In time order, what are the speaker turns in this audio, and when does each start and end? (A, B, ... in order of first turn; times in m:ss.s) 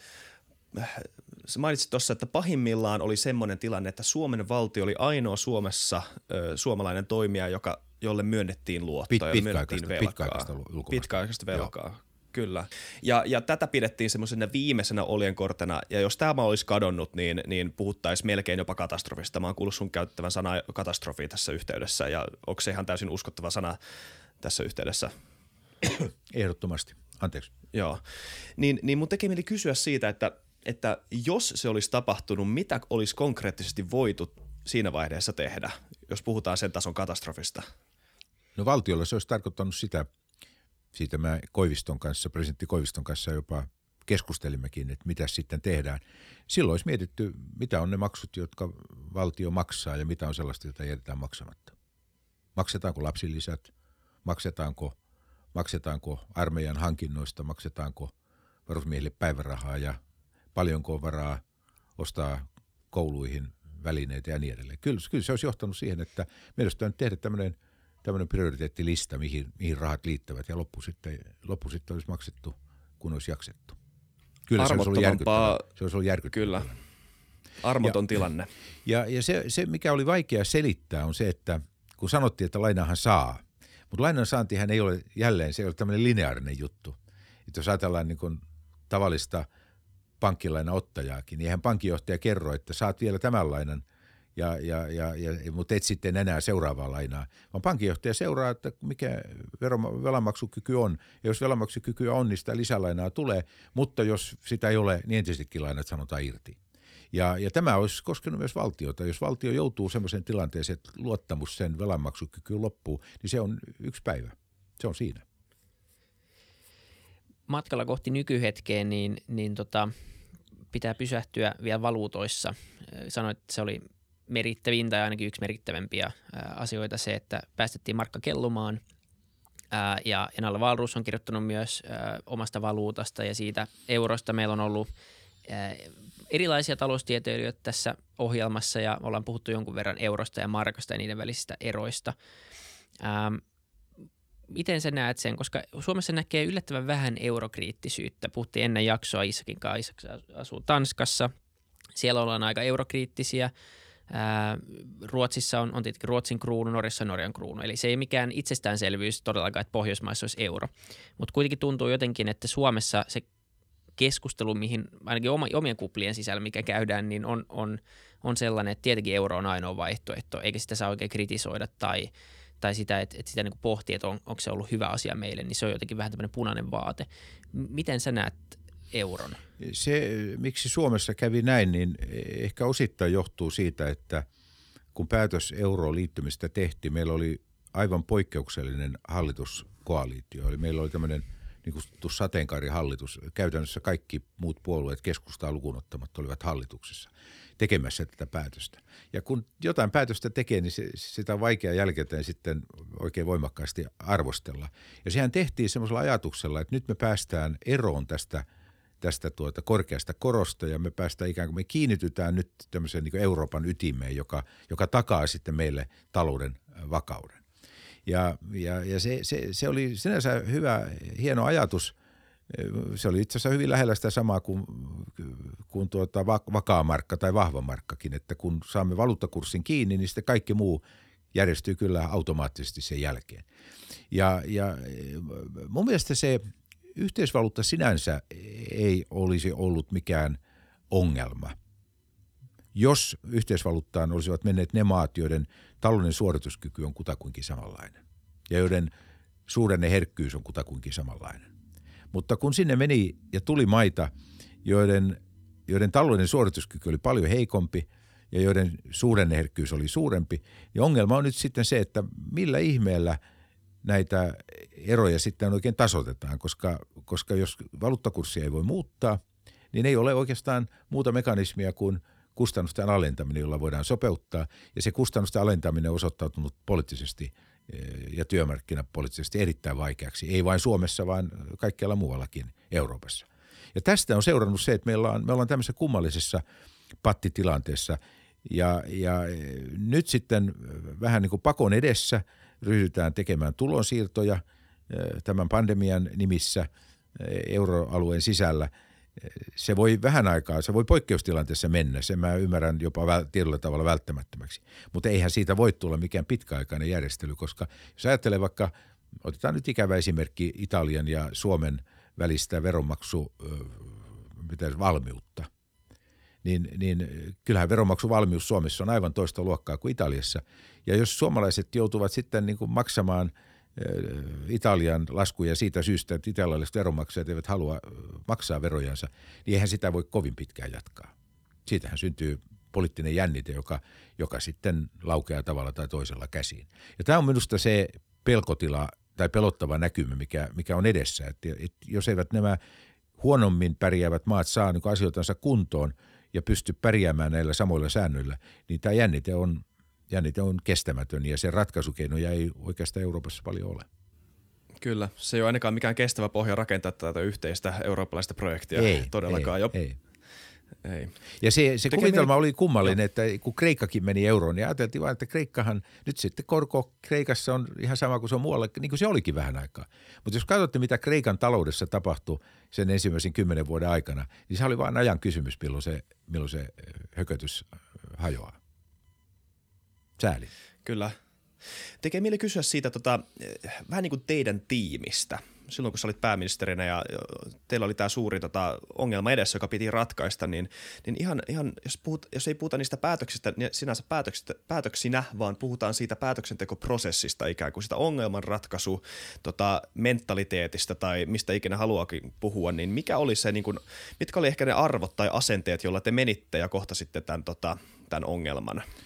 0:00.7-0:23.8 A
0:09.1-0:11.7 B
0:24.4-0:25.1 A
0:25.8-0:27.5 B
0:27.7-0:28.0 A
0:28.6-0:37.7 A
0:38.6-0:40.1 B
0:40.9-0:51.8 B
0:52.6-0:53.7 B
0:54.2-0:55.0 B
0:55.5-0:58.1 B
0:58.7-1:00.0 B
1:00.5-1:01.4 B
1:02.0-1:13.8 B
1:14.5-1:16.8 B
1:14.6-1:15.6 A
1:16.3-1:16.7 A
1:17.6-1:18.5 A
1:18.8-1:29.5 B
1:30.2-1:33.8 B
1:34.4-1:46.6 B
1:47.1-1:55.2 B
1:57.5-1:59.9 C
2:00.7-2:08.8 C
2:09.7-2:14.9 C
2:15.5-2:22.2 C
2:23.0-2:23.4 C
2:24.5-2:31.3 C
2:32.0-2:33.5 C
2:34.1-2:43.3 C
2:44.0-2:59.4 C
2:59.6-3:04.3 B
3:05.0-3:28.4 B
3:29.0-3:37.4 B
3:38.1-3:42.0 B
3:42.5-3:53.4 B
3:54.1-3:56.4 B
3:56.9-4:00.4 B
4:00.9-4:01.6 B
4:02.7-4:08.9 B
4:09.5-4:11.5 B
4:12.1-4:14.1 B
4:14.6-4:23.2 B
4:23.8-4:46.4 B
4:47.0-5:15.5 B
5:16.4-5:31.1 B
5:31.7-5:42.6 B
5:43.2-5:53.9 B
5:54.8-5:59.8 A
5:58.8-6:00.0 B
6:00.8-6:01.2 A
6:01.4-6:18.6 B
6:01.9-6:02.3 A
6:20.2-6:20.5 B
6:20.8-6:21.2 A
6:22.0-6:48.8 A